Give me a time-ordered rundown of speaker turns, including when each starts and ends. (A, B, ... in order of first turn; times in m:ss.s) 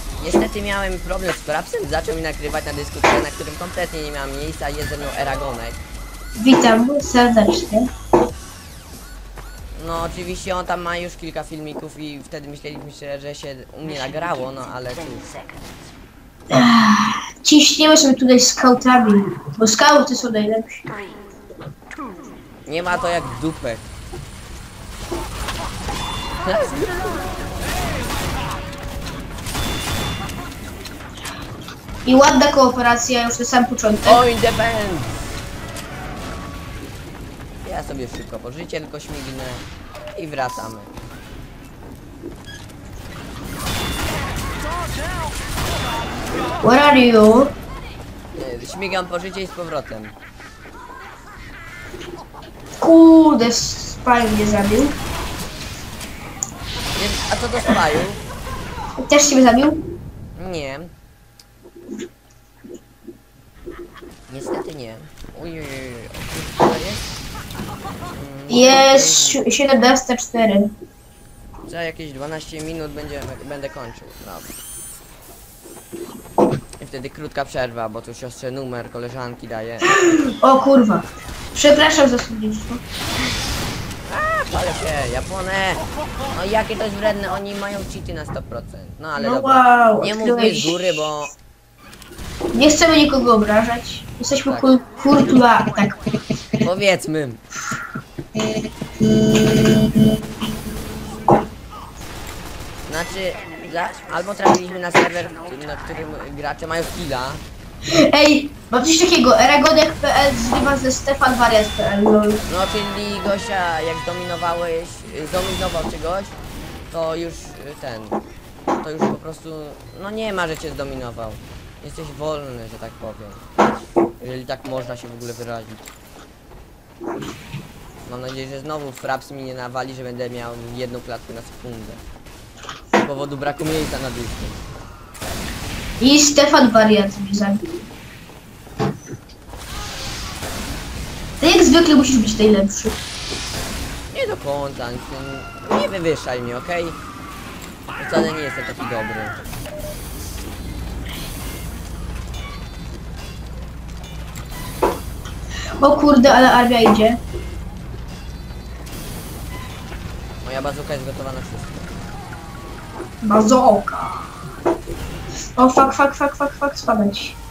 0:00.2-0:05.8 A
0:06.4-0:07.9 B
0:09.8-0:15.4 A
0:16.5-0:20.9 B
0:22.7-0:23.9 A
0:26.4-0:27.3 A
0:32.0-0:34.2 B
0:34.0-0:35.2 A
0:37.6-0:40.9 A
0:46.6-0:47.5 B
0:48.4-0:50.2 A
0:52.8-0:55.0 B
0:57.0-0:58.2 A
0:59.0-0:59.8 B
1:00.4-1:00.9 A
1:04.3-1:07.0 A
1:08.1-1:09.4 A
1:08.5-1:10.7 B
1:11.6-1:14.6 A
1:16.8-1:20.0 A
1:20.0-1:22.8 B
1:24.1-1:31.3 A
1:29.2-1:31.0 B
1:32.5-1:36.0 B
1:36.6-1:37.4 A
1:39.2-1:40.0 B
1:42.9-1:47.4 A
1:47.9-1:52.4 B
1:52.5-1:56.4 A
1:56.9-1:58.2 A
1:58.8-2:03.6 A
2:04.2-2:05.9 A
2:08.1-2:12.0 A
2:13.0-2:14.6 A
2:16.0-2:17.9 B
2:21.4-2:23.0 B
2:24.1-2:27.0 A
2:28.0-2:29.4 A
2:35.8-2:37.2 B
2:40.4-2:41.9 A
2:43.2-2:44.3 B
2:45.6-2:47.4 B